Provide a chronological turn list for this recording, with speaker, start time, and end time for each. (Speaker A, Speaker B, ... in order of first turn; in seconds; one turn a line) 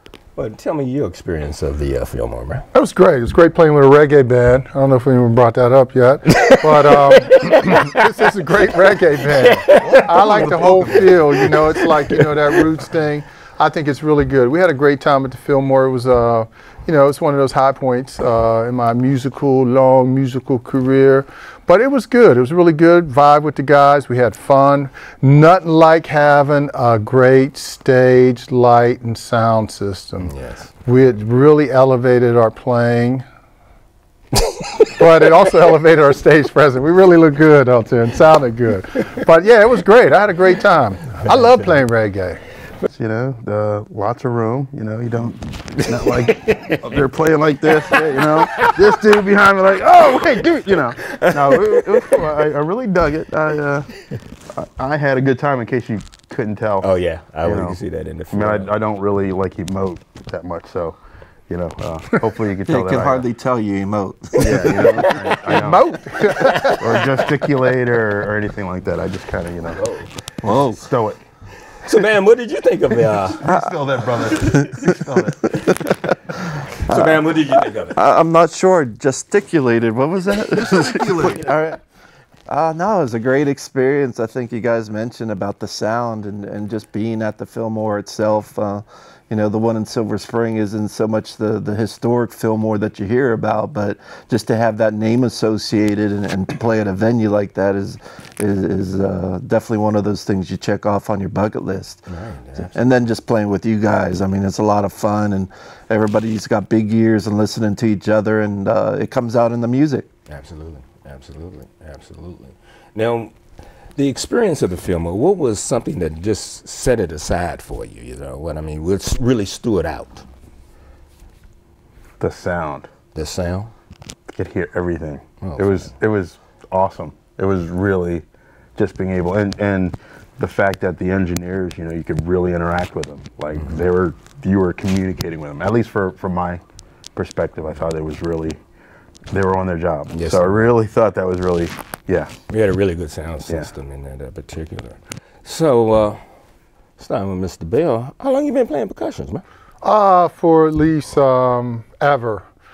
Speaker A: 0.4-2.6
Speaker B: 2.7-33.2
Speaker A: 6.5-7.9
Speaker A: 9.4-12.2
Speaker A: 30.2-30.7
Speaker B: 35.0-42.4
Speaker C: 42.9-53.9
Speaker A: 45.8-46.9
Speaker A: 47.9-48.9
Speaker A: 51.1-52.2
Speaker C: 54.5-56.9
Speaker A: 56.8-58.7
Speaker C: 57.4-57.8
Speaker C: 58.3-61.0
Speaker C: 61.5-63.3
Speaker D: 62.7-65.2
Speaker A: 64.4-65.5
Speaker C: 64.4-69.8
Speaker B: 65.4-67.1
Speaker D: 70.4-70.8
Speaker C: 70.7-71.2
Speaker A: 71.8-73.5
Speaker C: 73.4-75.4
Speaker D: 73.5-75.2
Speaker A: 76.9-78.0
Speaker D: 76.9-81.8
Speaker C: 80.5-81.5
Speaker D: 82.5-102.0
Speaker A: 102.1-102.8
Speaker D: 102.6-110.1
Speaker A: 110.3-113.3
Speaker A: 114.0-120.2
Speaker C: 122.2-122.9
Speaker A: 123.1-123.7
Speaker C: 124.3-128.2
Speaker A: 125.4-125.9
Speaker C: 128.8-136.6
Speaker C: 137.1-138.6
Speaker C: 139.3-142.3
Speaker A: 140.1-140.6
Speaker A: 142.5-146.2
Speaker A: 147.0-149.4
Speaker B: 149.8-152.5